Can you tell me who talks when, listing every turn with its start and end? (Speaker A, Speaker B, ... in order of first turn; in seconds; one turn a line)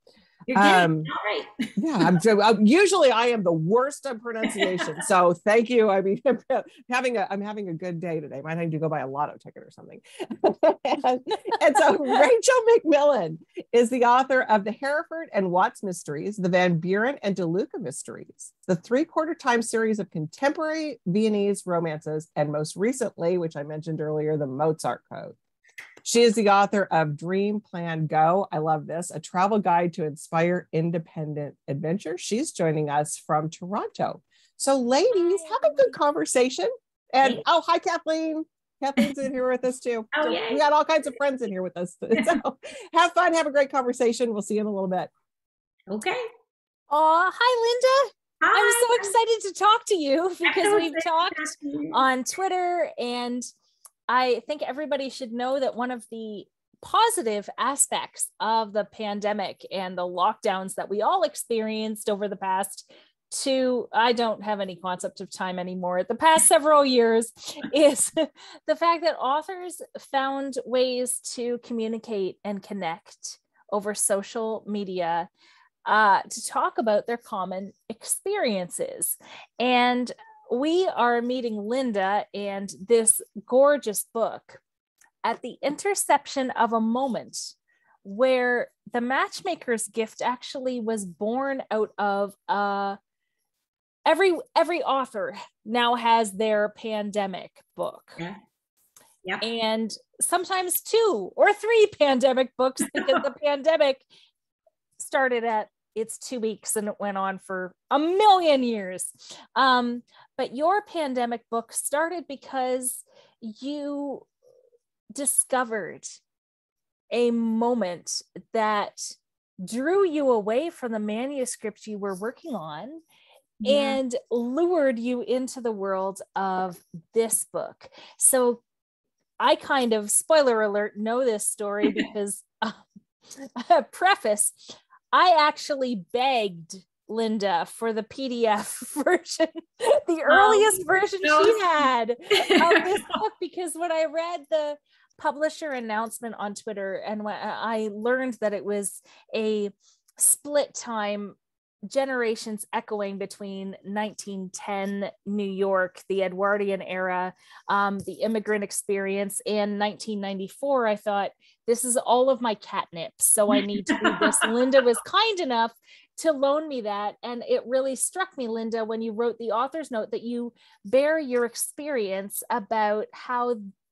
Speaker A: 0.5-2.1
Speaker B: 0.6-1.1
Speaker B: 1.8-25.4
Speaker A: 4.5-4.8
Speaker B: 26.0-45.1
Speaker A: 40.1-40.6
Speaker A: 45.9-46.2
Speaker C: 46.9-53.5
Speaker A: 48.4-49.1
Speaker A: 50.5-52.0
Speaker C: 54.1-75.3
Speaker C: 75.9-84.6
Speaker C: 85.2-93.0
Speaker C: 94.1-98.2
Speaker C: 99.4-104.1
Speaker C: 105.0-114.3
Speaker C: 115.2-116.2
Speaker C: 117.1-123.0
Speaker A: 123.6-124.0
Speaker C: 123.7-128.6
Speaker C: 129.4-132.8
Speaker C: 133.4-151.4
Speaker A: 140.3-141.8
Speaker A: 142.3-143.0
Speaker C: 151.9-173.6
Speaker A: 163.9-164.4